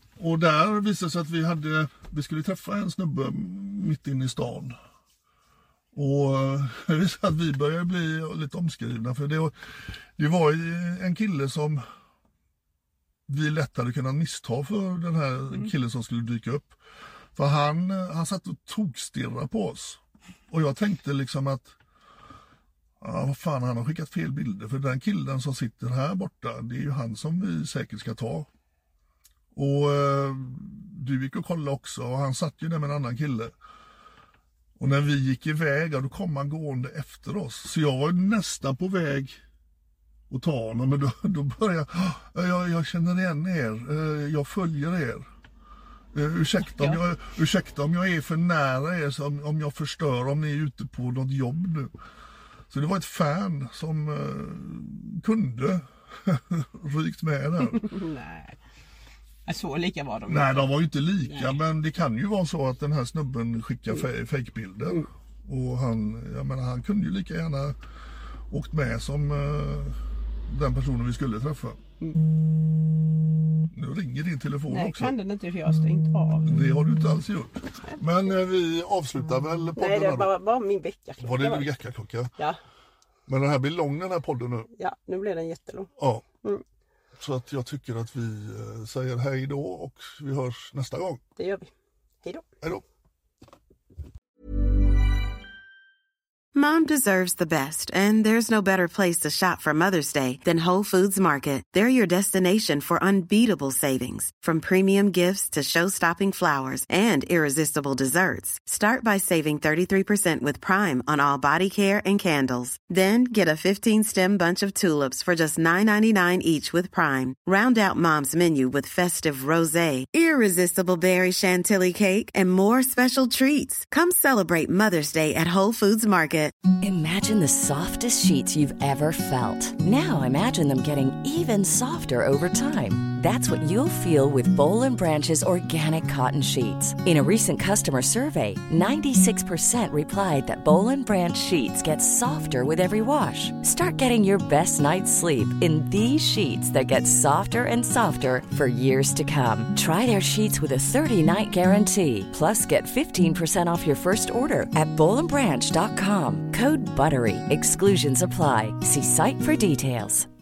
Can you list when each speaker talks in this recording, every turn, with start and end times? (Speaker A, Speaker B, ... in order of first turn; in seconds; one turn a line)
Speaker A: 0.2-4.8
Speaker A: 5.9-11.8
Speaker A: 13.3-16.8
Speaker A: 17.4-21.7
Speaker A: 23.0-28.5
Speaker A: 29.5-33.5
Speaker A: 34.8-39.4
Speaker A: 40.3-45.3
Speaker A: 46.1-51.9
Speaker A: 52.7-57.9
Speaker B: 57.7-58.5
Speaker B: 59.5-61.6
Speaker A: 60.3-67.8
Speaker A: 68.5-71.8
Speaker A: 73.7-75.2
Speaker B: 74.7-76.5
Speaker A: 76.5-80.3
Speaker B: 79.8-81.8
Speaker A: 81.2-82.3
Speaker A: 83.3-84.7
Speaker B: 84.8-85.9
Speaker A: 86.0-86.2
Speaker A: 87.2-91.2
Speaker B: 91.4-91.7
Speaker C: 96.5-126.6
Speaker D: 126.8-160.3